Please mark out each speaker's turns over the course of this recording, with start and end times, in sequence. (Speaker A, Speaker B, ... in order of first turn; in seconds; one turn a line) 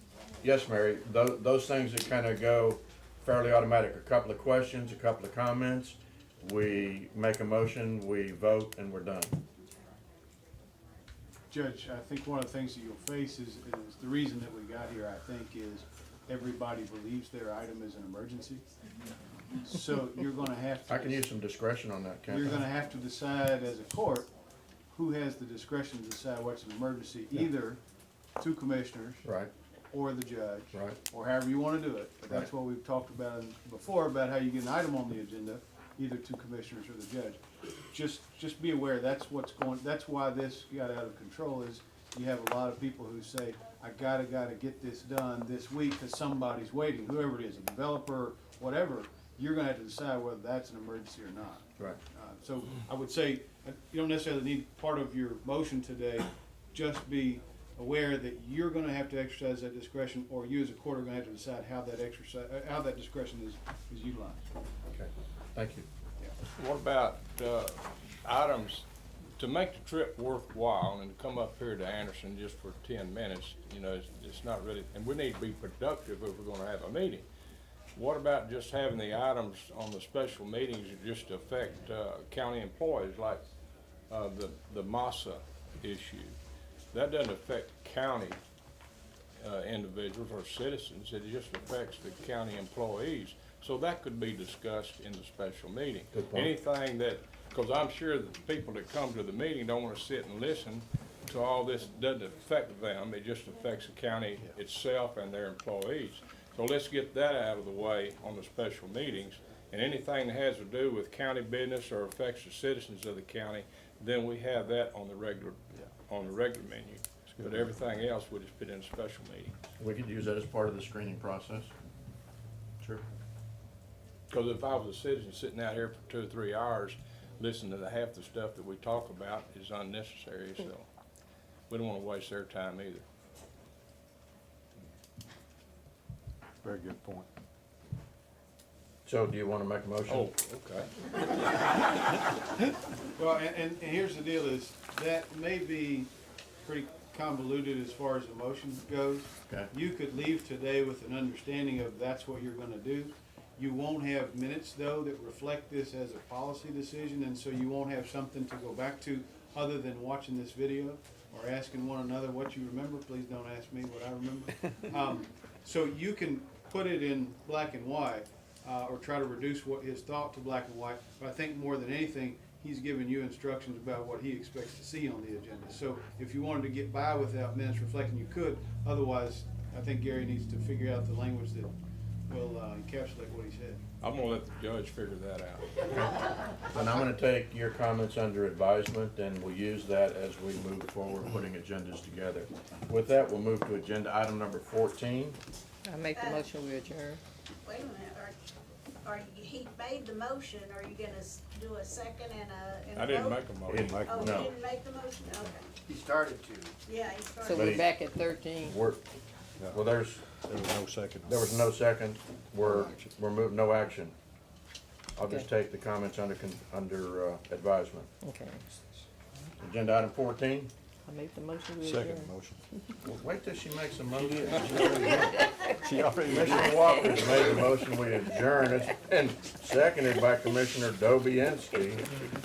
Speaker A: 0.4-9.4
Speaker B: 11.5-18.6
Speaker B: 19.6-21.3
Speaker A: 20.9-22.6
Speaker B: 22.3-24.3
Speaker B: 24.9-27.8
Speaker B: 28.4-29.2
Speaker A: 29.2-29.5
Speaker B: 29.9-37.4
Speaker A: 30.7-31.0
Speaker B: 37.9-64.4
Speaker A: 64.9-65.9
Speaker C: 66.6-68.9
Speaker C: 69.4-77.3
Speaker C: 78.0-83.4
Speaker C: 84.1-86.4
Speaker C: 86.9-88.4
Speaker C: 89.4-119.5
Speaker A: 96.1-96.5
Speaker D: 117.4-117.7
Speaker A: 119.8-121.7
Speaker C: 124.3-130.9
Speaker C: 131.7-133.1
Speaker D: 136.6-137.3
Speaker A: 139.1-140.3
Speaker C: 140.1-140.9
Speaker B: 143.2-146.1
Speaker B: 146.7-181.7
Speaker B: 182.3-183.8
Speaker C: 184.0-185.9
Speaker A: 186.7-195.4
Speaker E: 195.9-197.2
Speaker F: 196.1-196.4
Speaker F: 197.6-198.4
Speaker F: 199.0-203.4
Speaker C: 203.0-204.1
Speaker D: 203.7-204.5
Speaker F: 204.0-205.7
Speaker A: 204.1-204.5
Speaker A: 205.9-206.7
Speaker F: 206.9-207.8
Speaker E: 207.4-208.8
Speaker A: 207.5-207.9
Speaker A: 208.7-209.1
Speaker A: 209.7-210.2
Speaker D: 210.4-211.6
Speaker A: 211.3-214.1
Speaker D: 212.6-213.1
Speaker A: 215.2-218.1
Speaker E: 218.2-218.6
Speaker A: 219.6-220.7
Speaker E: 221.1-222.3
Speaker D: 221.8-222.6
Speaker A: 223.0-225.3
Speaker D: 224.2-227.3
Speaker A: 226.3-232.1